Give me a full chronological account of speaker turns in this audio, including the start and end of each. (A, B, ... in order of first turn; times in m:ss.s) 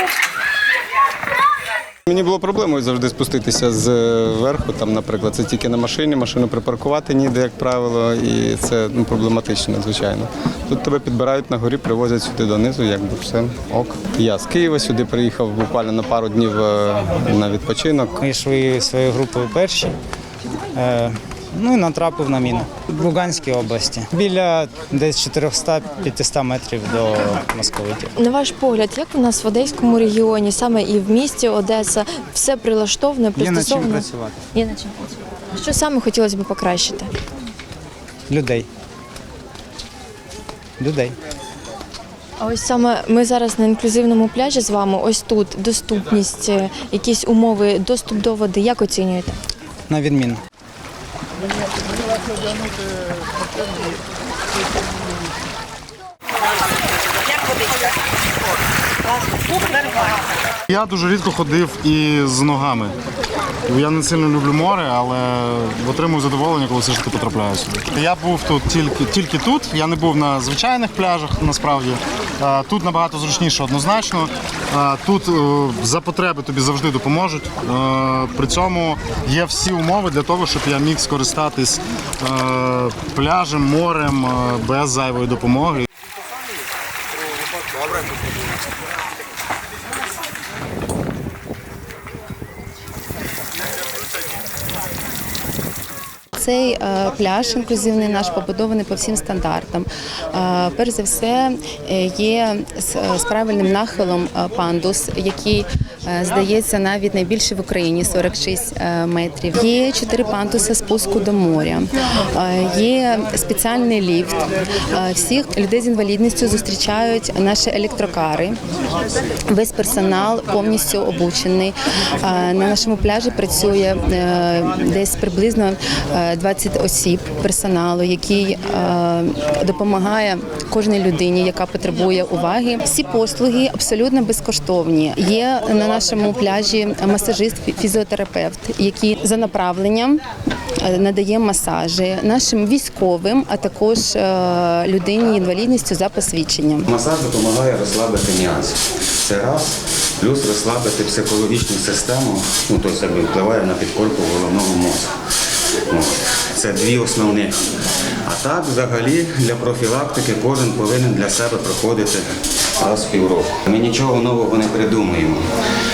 0:02.1-0:18.2 A
0:18.2-0:19.9 B
0:20.8-0:28.1 B
0:28.2-0:37.1 C
0:33.4-0:34.4 B
0:38.3-0:38.7 B
0:40.8-0:41.2 B
0:42.4-0:49.4 C
0:49.9-0:50.4 B
1:00.7-1:02.9 D
1:03.7-1:25.9 D
1:36.4-1:58.6 E
1:59.5-2:20.2 E
2:20.8-2:26.9 E
2:26.9-2:35.2 F
2:35.9-2:45.6 F